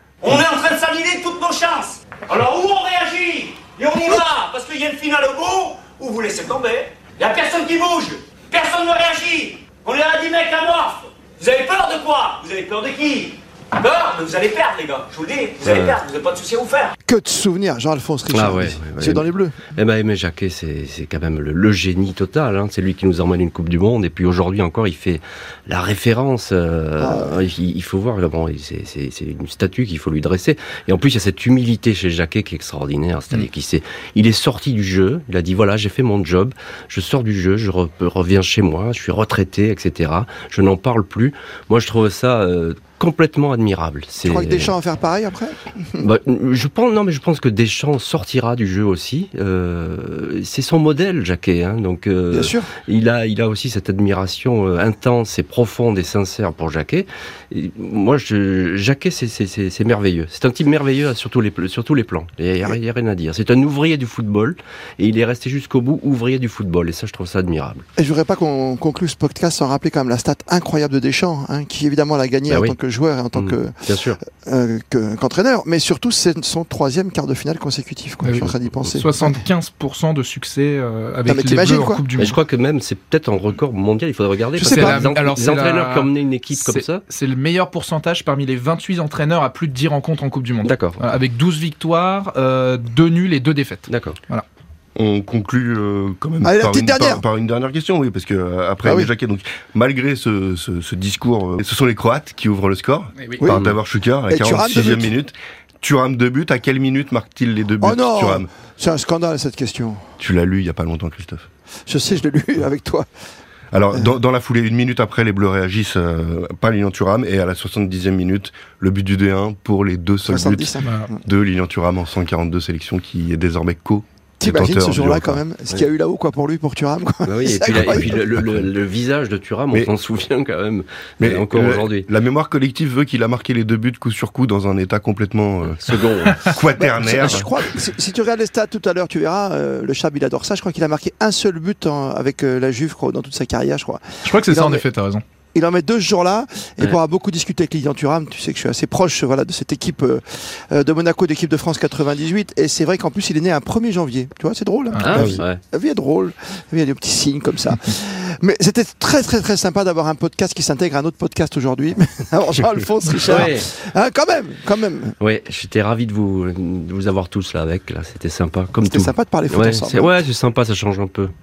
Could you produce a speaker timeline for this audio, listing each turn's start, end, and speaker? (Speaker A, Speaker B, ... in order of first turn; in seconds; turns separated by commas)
Speaker A: 0.2-16.9, Speaker B: 15.6-16.0, Speaker C: 17.0-19.5, Speaker B: 18.3-44.8, Speaker C: 27.0-27.4, Speaker C: 44.2-46.1, Speaker B: 46.0-67.8, Speaker C: 52.3-52.7, Speaker C: 68.0-73.7, Speaker B: 72.5-72.8, Speaker B: 73.3-74.2, Speaker C: 74.4-79.3, Speaker D: 78.2-82.4, Speaker C: 81.2-82.0, Speaker B: 82.2-87.0, Speaker C: 84.6-85.0, Speaker D: 84.6-94.5, Speaker B: 90.6-91.0, Speaker B: 93.9-94.2, Speaker E: 95.0-108.5, Speaker C: 96.4-97.2, Speaker C: 98.8-99.1, Speaker D: 103.2-103.5, Speaker B: 103.5-103.8, Speaker C: 104.3-105.1, Speaker C: 107.8-110.0, Speaker E: 110.2-111.5, Speaker C: 111.9-113.1, Speaker E: 113.7-125.4, Speaker C: 120.2-121.2, Speaker D: 120.8-121.1, Speaker C: 124.4-128.2, Speaker B: 127.2-132.1, Speaker E: 127.7-128.7, Speaker E: 131.2-137.6, Speaker B: 135.7-136.5, Speaker C: 136.8-144.8, Speaker D: 144.2-145.2, Speaker C: 145.5-165.2, Speaker D: 154.9-155.2, Speaker B: 155.0-155.6, Speaker B: 163.2-163.7, Speaker B: 165.2-171.3, Speaker C: 168.8-170.1